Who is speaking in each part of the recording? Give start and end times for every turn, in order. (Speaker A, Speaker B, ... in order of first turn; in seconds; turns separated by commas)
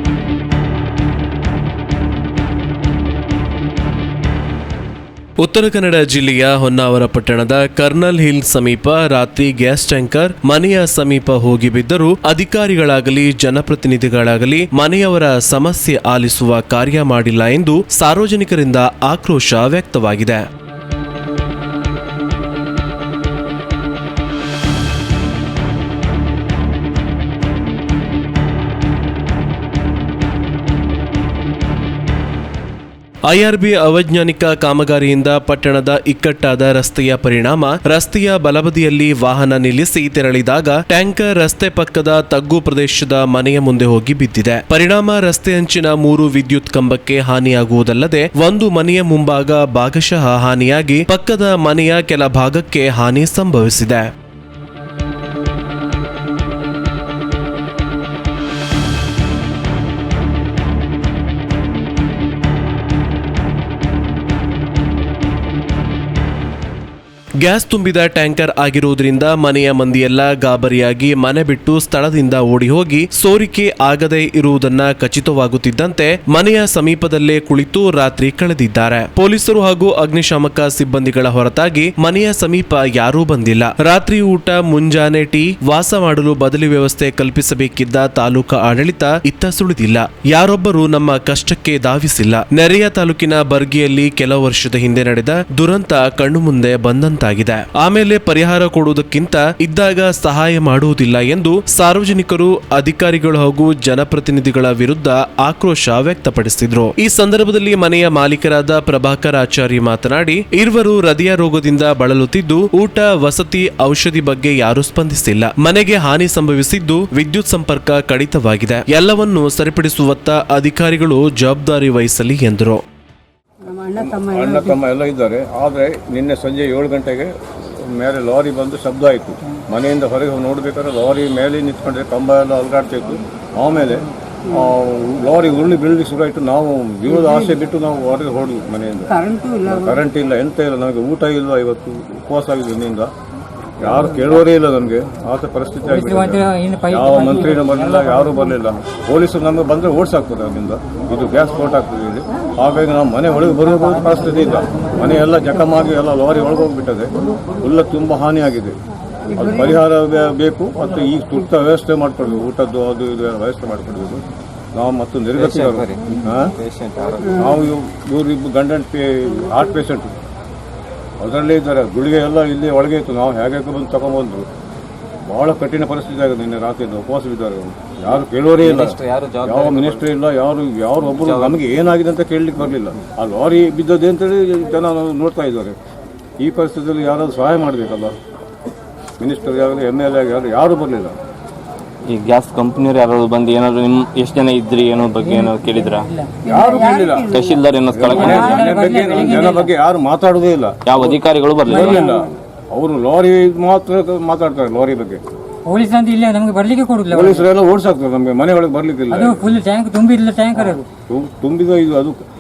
Speaker A: 5.4-20.5, Speaker A: 33.3-54.1, Speaker A: 67.4-122.8, Speaker B: 123.8-143.1, Speaker C: 139.2-139.7, Speaker B: 143.8-157.1, Speaker C: 145.9-148.1, Speaker B: 157.6-158.8, Speaker B: 159.3-164.2, Speaker B: 164.7-166.5, Speaker D: 165.4-166.0, Speaker D: 166.6-167.4, Speaker B: 167.3-170.1, Speaker B: 171.2-174.5, Speaker B: 175.2-185.8, Speaker D: 178.6-180.0, Speaker D: 181.1-181.6, Speaker B: 186.4-188.2, Speaker B: 189.2-191.2, Speaker D: 192.1-196.1, Speaker C: 195.4-197.4, Speaker B: 196.4-205.2, Speaker D: 197.3-198.6, Speaker C: 198.1-199.7, Speaker D: 200.9-201.8, Speaker C: 205.7-207.4, Speaker B: 207.1-209.6, Speaker C: 209.1-210.8, Speaker B: 210.6-212.2